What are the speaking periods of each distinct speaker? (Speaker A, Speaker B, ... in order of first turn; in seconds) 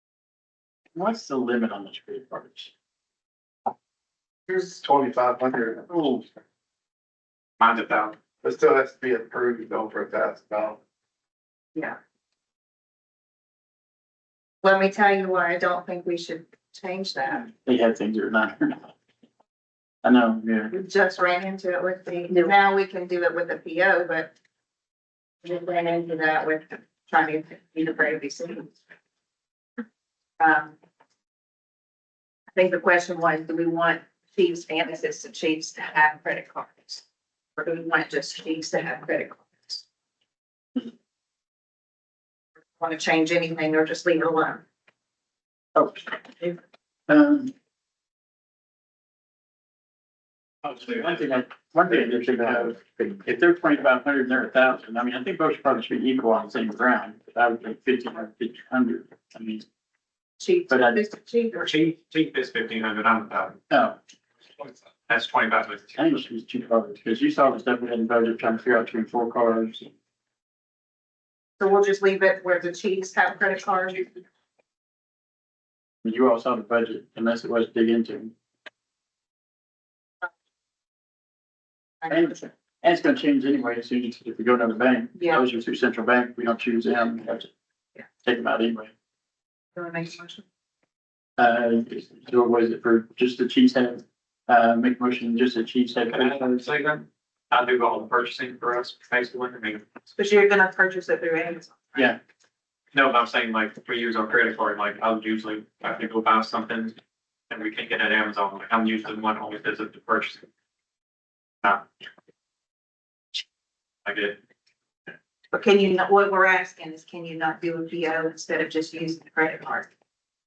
Speaker A: 0.9-2.7, 5.9-6.2, 17.6-18.9, 20.0-20.7, 45.8-46.2, 47.1-47.5, 50.6-59.6, 60.7-61.0, 63.7-64.0, 66.0-69.9, 76.0-78.3, 82.1-87.5, 88.2-88.9, 91.4-96.6
Speaker B: 4.5-5.9, 8.4-10.8, 51.9-53.3
Speaker C: 7.6-8.2, 61.6-63.6, 65.1-65.9, 96.1-99.8, 102.9-107.0, 107.5-110.5, 114.0-114.4
Speaker D: 14.6-17.5, 20.7-24.3, 25.4-28.8, 30.4-30.8, 32.5-37.0, 37.6-39.8, 42.8-44.6, 60.4-61.8, 71.6-74.2, 82.0-82.5, 85.2-85.4, 89.8-90.5, 100.1-102.1, 115.5-119.9